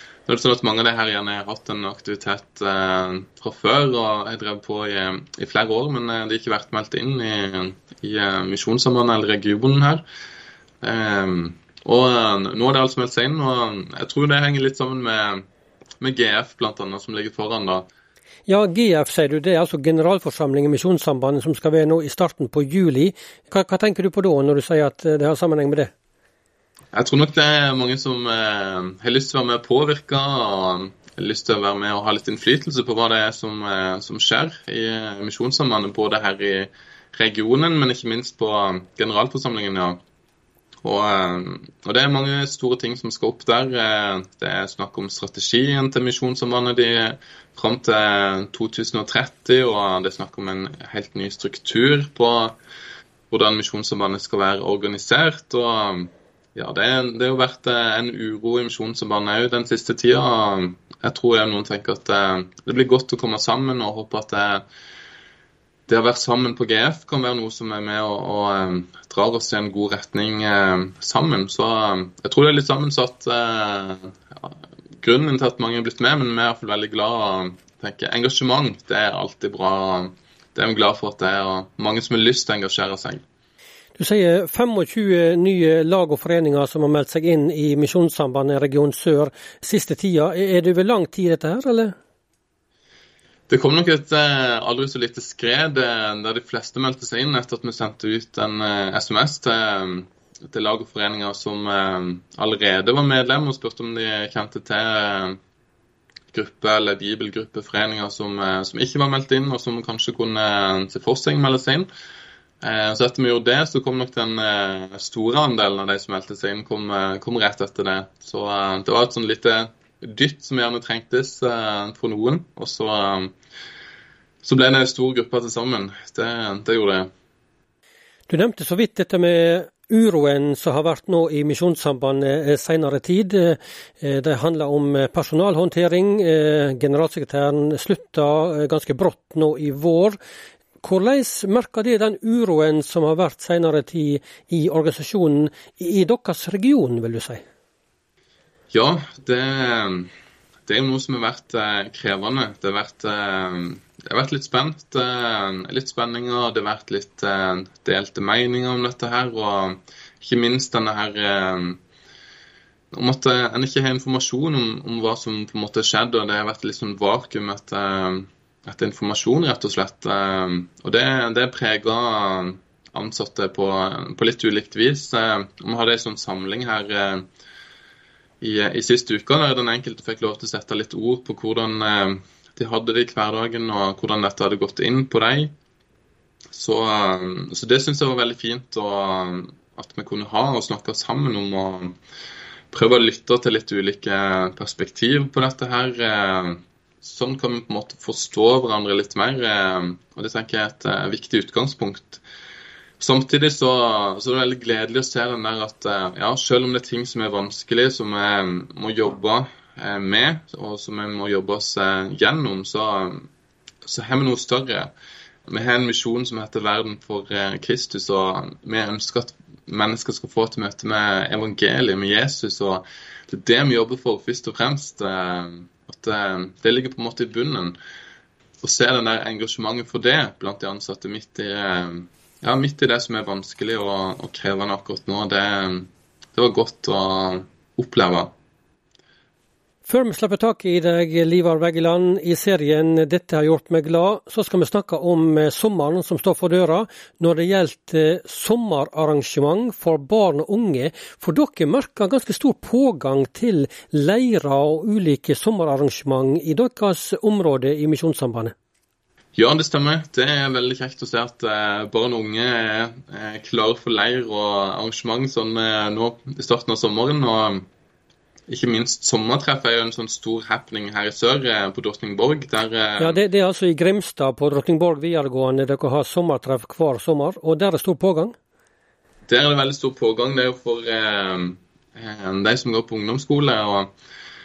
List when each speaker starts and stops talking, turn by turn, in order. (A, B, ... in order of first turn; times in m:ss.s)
0:00.3-0:10.0 A
0:10.8-0:15.4 A
0:16.0-0:17.9 A
0:18.5-0:25.9 B
0:26.9-0:40.0 A
0:40.8-0:52.6 A
0:53.3-1:04.6 A
1:05.9-1:23.2 A
1:24.0-1:31.9 B
1:33.5-1:45.4 A
1:46.3-1:51.9 A
1:52.6-2:03.3 A
2:04.4-2:07.1 A
2:08.3-2:20.2 B
2:20.8-2:27.4 B
2:28.7-2:30.1 A
2:30.7-2:41.8 A
2:42.9-2:57.2 A
2:58.4-3:05.5 A
3:06.5-3:12.0 A
3:12.7-3:22.2 A
3:23.0-3:33.3 A
3:33.8-3:34.9 A
3:35.5-3:47.8 A
3:48.6-3:58.3 A
3:59.9-4:18.5 B
4:19.3-4:27.7 A
4:28.5-4:33.2 A
4:33.0-4:38.3 B
4:39.3-4:43.9 A